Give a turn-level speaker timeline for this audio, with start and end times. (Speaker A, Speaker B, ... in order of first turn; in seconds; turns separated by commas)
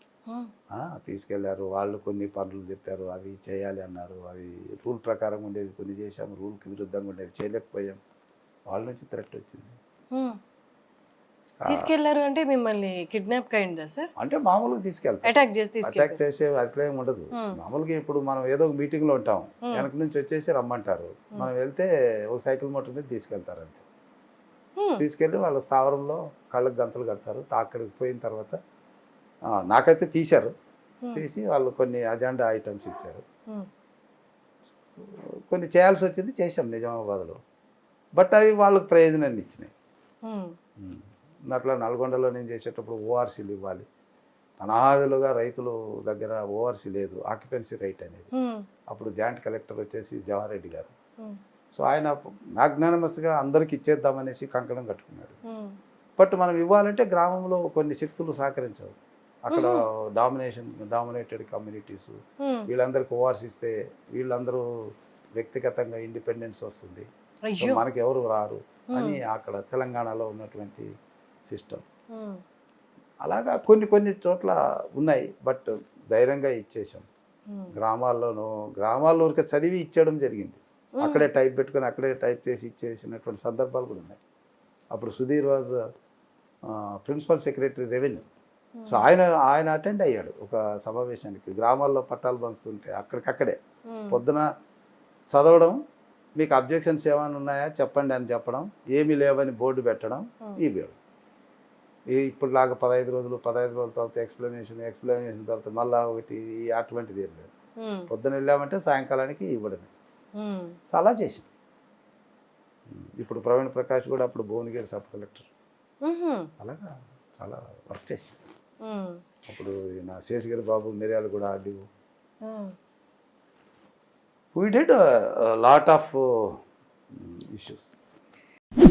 Speaker A: 0.8-8.0, Speaker A: 8.7-9.8, Speaker A: 11.6-11.9, Speaker B: 11.7-14.1, Speaker A: 14.2-23.8, Speaker B: 15.2-16.2, Speaker B: 24.8-25.0, Speaker A: 25.0-28.6, Speaker A: 29.6-30.5, Speaker A: 31.1-33.2, Speaker A: 35.0-37.4, Speaker A: 38.2-39.7, Speaker B: 40.2-40.6, Speaker A: 40.8-43.9, Speaker A: 44.6-48.3, Speaker B: 48.3-48.7, Speaker A: 48.9-50.9, Speaker A: 51.7-55.4, Speaker B: 55.5-55.8, Speaker A: 56.2-58.9, Speaker A: 59.5-64.6, Speaker B: 59.5-59.8, Speaker B: 62.4-62.7, Speaker A: 65.4-70.9, Speaker B: 67.5-67.8, Speaker B: 68.9-69.2, Speaker A: 71.5-71.8, Speaker B: 72.1-72.4, Speaker A: 73.2-77.1, Speaker B: 77.5-77.8, Speaker A: 77.7-84.2, Speaker B: 81.0-81.3, Speaker A: 84.9-85.8, Speaker A: 86.7-88.3, Speaker B: 88.8-89.1, Speaker A: 88.9-93.6, Speaker B: 93.9-94.2, Speaker A: 94.1-94.5, Speaker A: 95.3-95.8, Speaker A: 96.4-101.0, Speaker A: 102.1-107.5, Speaker B: 107.8-108.1, Speaker A: 108.1-109.9, Speaker B: 110.4-110.8, Speaker A: 110.9-111.5, Speaker A: 112.9-115.5, Speaker B: 116.0-116.5, Speaker A: 116.6-118.4, Speaker B: 118.8-119.2, Speaker A: 119.5-121.9, Speaker B: 122.4-122.7, Speaker A: 124.5-126.6, Speaker A: 127.2-128.0